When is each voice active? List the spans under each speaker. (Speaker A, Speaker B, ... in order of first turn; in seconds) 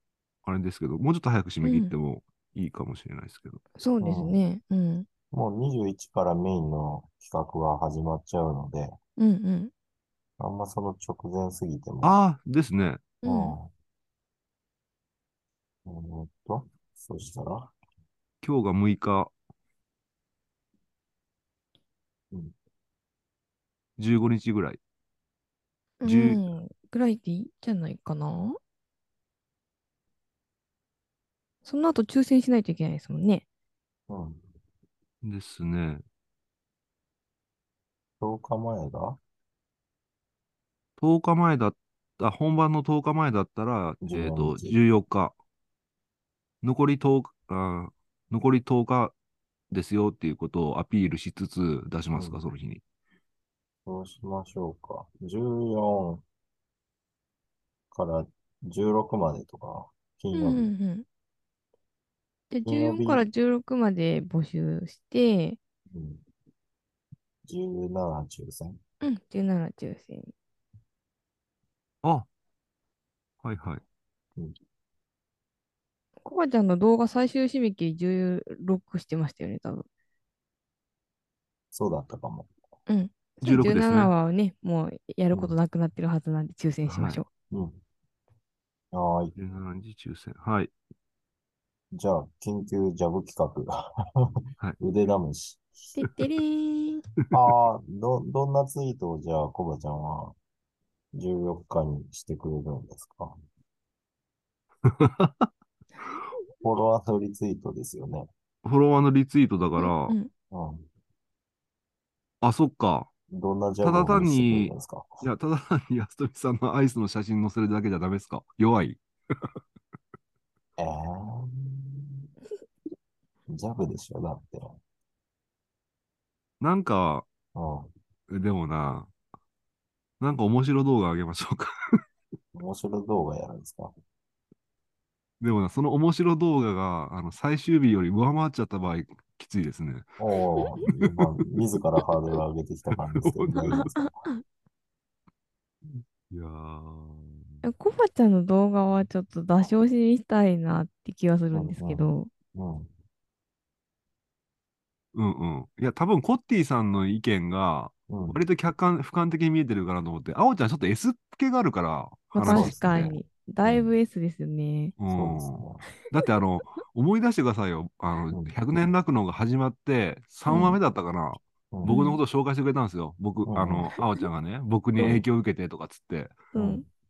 Speaker A: 0.4-3.6, 12.0-13.1, 18.4-19.3, 24.0-24.8, 26.0-26.4, 35.2-36.0, 41.0-45.3, 46.6-49.1, 49.7-52.8, 72.0-72.3, 73.4-73.8, 83.4-84.1, 86.8-87.2, 89.3-90.7, 104.8-105.5, 108.6-110.1, 112.4-113.1, 113.8-119.0, 126.6-127.2, 128.3-129.1, 130.2-132.0, 135.4-140.1, 143.2-143.8, 145.9-147.6, 155.1-163.1, 165.0-176.5
Speaker B: 1.6-1.9, 3.8-5.0, 9.2-9.7, 13.2-13.6, 26.0-28.6, 31.6-33.4, 60.3-61.0, 62.5-65.6, 69.0-70.3, 76.2-79.8, 82.9-87.3, 95.9-97.0, 109.8-110.3, 143.6-144.0, 147.6-152.3, 162.3-164.9, 170.5-170.8, 171.8-172.2, 176.5-176.8
Speaker C: 4.0-4.4, 5.3-9.0, 10.4-12.2, 13.2-13.7, 15.8-17.7, 34.1-34.4, 38.2-39.2, 44.0-44.8, 52.1-52.4, 53.9-56.2, 57.9-60.7, 62.6-63.2, 65.9-66.2, 67.4-68.8, 81.7-82.5, 87.5-87.8, 88.9-89.3, 91.9-93.7, 94.2-95.7, 97.3-100.3, 101.1-103.3, 106.6-108.3, 110.5-110.9, 113.3-115.1, 120.8-122.2, 123.5-124.8, 127.5-127.9, 132.5-133.9, 140.2-144.3, 151.5-152.9, 158.1-158.4, 162.4-163.9, 165.1-165.8, 173.5-173.9, 175.0-175.2, 176.5-176.8